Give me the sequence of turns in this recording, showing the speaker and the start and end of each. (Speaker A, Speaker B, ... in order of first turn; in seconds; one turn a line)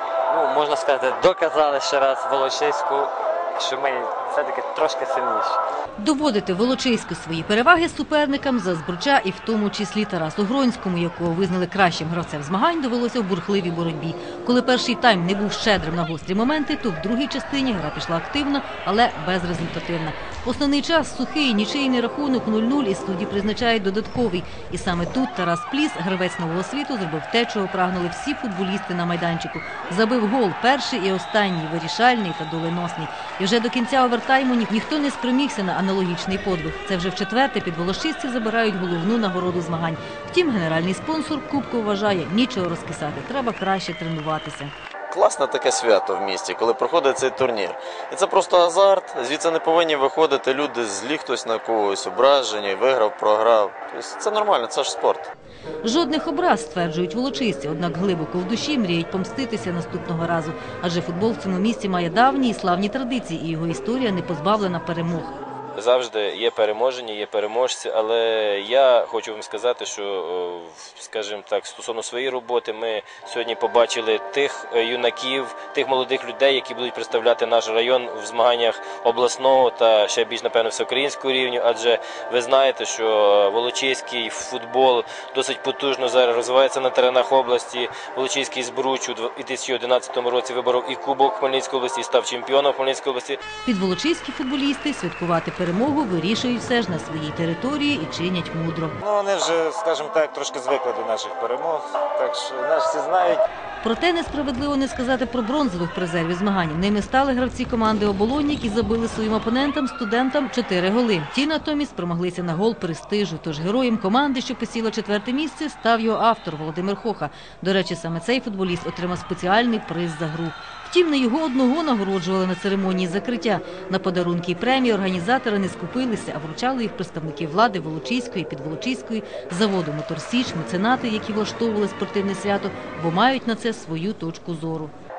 Speaker A: 0.3-5.6
Speaker B: 6.0-44.7
Speaker C: 45.1-55.3
Speaker B: 55.8-65.3
Speaker D: 65.8-93.4
Speaker B: 93.6-98.9
Speaker E: 99.0-103.4
Speaker B: 103.8-134.9